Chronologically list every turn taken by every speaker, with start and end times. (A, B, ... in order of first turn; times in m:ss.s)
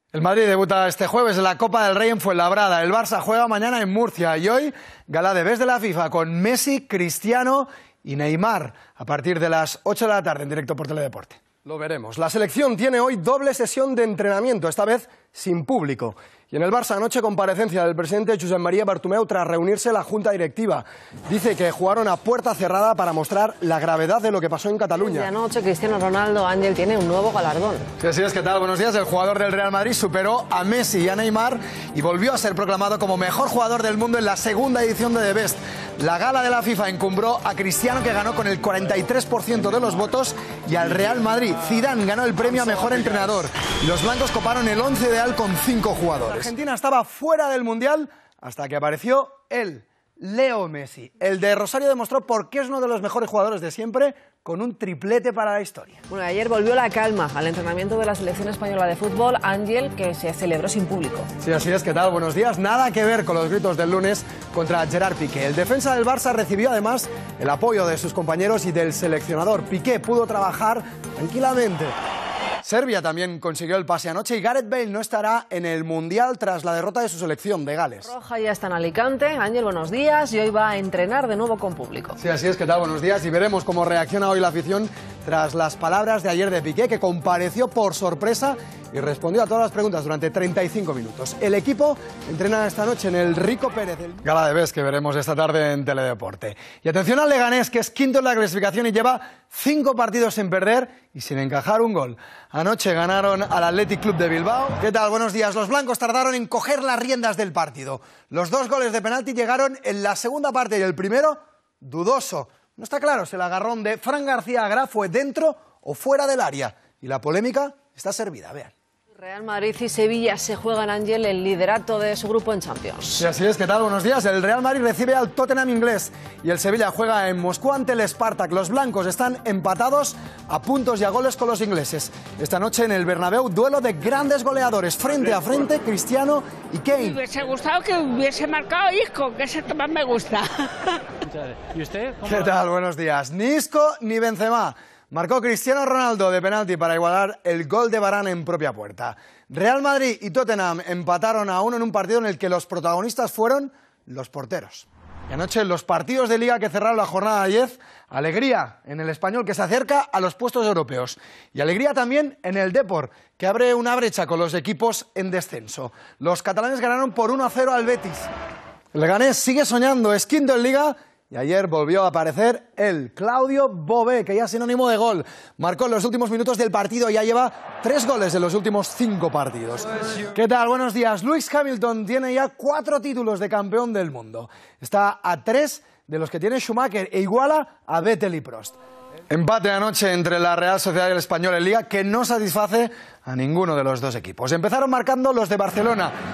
0:00.1-0:25.3 A
0:25.0-0:27.9 B
0:28.0-0:56.0 A
0:56.1-1:01.3 B
1:01.4-1:11.9 A
1:12.6-1:18.1 A
1:18.0-1:22.2 B
1:22.2-1:58.7 A
1:59.2-2:03.3 B
2:03.2-2:17.2 A
2:17.2-2:21.0 C
2:22.2-2:48.3 A
2:48.9-3:08.8 A
3:09.3-3:16.1 A